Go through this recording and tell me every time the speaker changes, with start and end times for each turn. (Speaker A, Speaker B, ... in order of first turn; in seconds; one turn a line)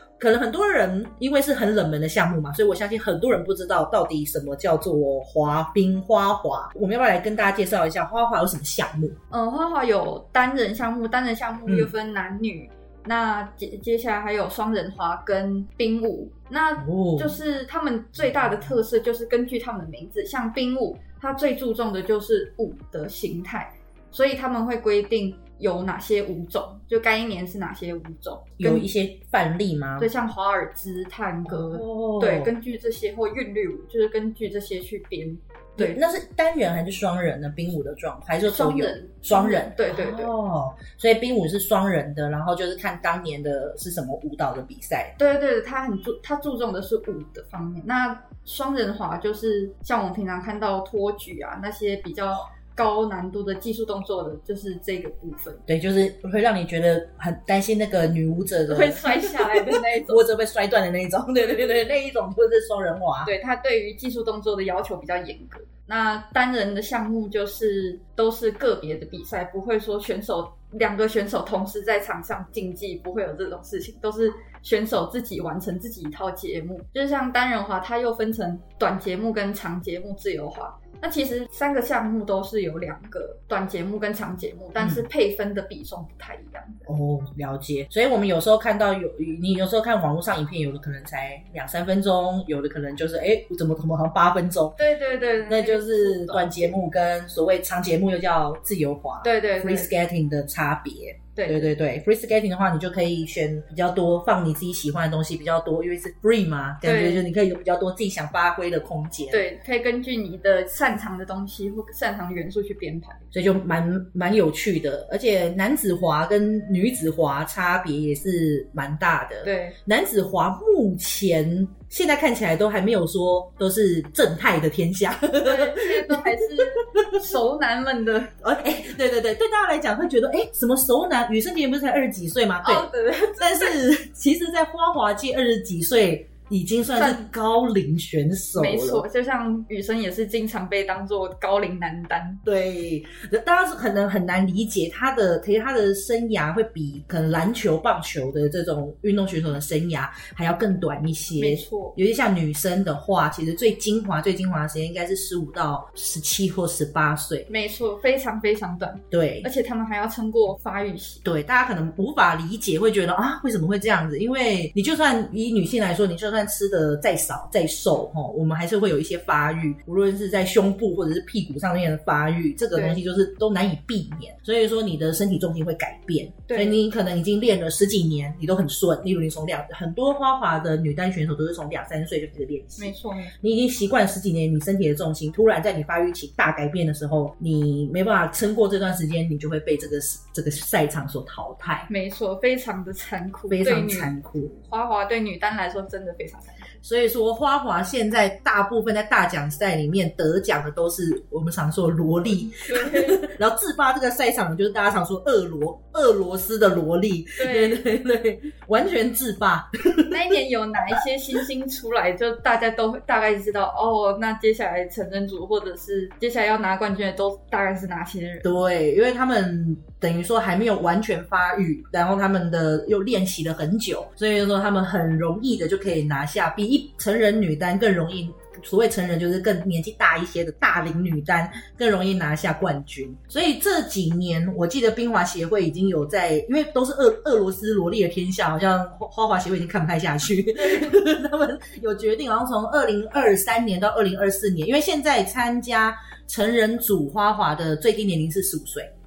Speaker A: 0.2-9.2
Speaker B: 9.3-28.9
Speaker A: 11.7-11.9
Speaker A: 16.8-17.4
Speaker A: 18.3-18.6
Speaker A: 28.6-30.1
Speaker B: 30.0-36.0
Speaker A: 31.5-32.5
Speaker A: 35.8-45.1
Speaker B: 38.4-40.3
Speaker B: 45.2-55.6
Speaker A: 55.7-63.3
Speaker B: 58.7-60.2
Speaker B: 63.2-86.8
Speaker A: 84.8-85.1
Speaker A: 86.8-94.8
Speaker B: 94.8-96.8
Speaker A: 95.4-109.5
Speaker B: 99.2-99.9
Speaker B: 101.3-101.7
Speaker B: 106.8-107.2
Speaker B: 109.3-113.2
Speaker A: 113.3-127.2
Speaker B: 119.4-119.8
Speaker B: 125.4-128.3
Speaker A: 128.4-139.1
Speaker B: 132.6-133.8
Speaker B: 136.9-137.3
Speaker B: 138.6-142.4
Speaker A: 142.4-157.5
Speaker B: 151.3-151.9
Speaker B: 157.5-161.2
Speaker A: 159.1-159.5
Speaker A: 161.2-191.9
Speaker B: 172.7-173.0
Speaker B: 176.5-176.8
Speaker B: 182.8-183.3
Speaker B: 191.9-196.7
Speaker A: 193.5-194.6
Speaker A: 196.8-210.3
Speaker B: 202.3-203.3
Speaker B: 207.4-207.8
Speaker B: 210.1-218.5
Speaker A: 218.4-248.9
Speaker B: 240.7-240.9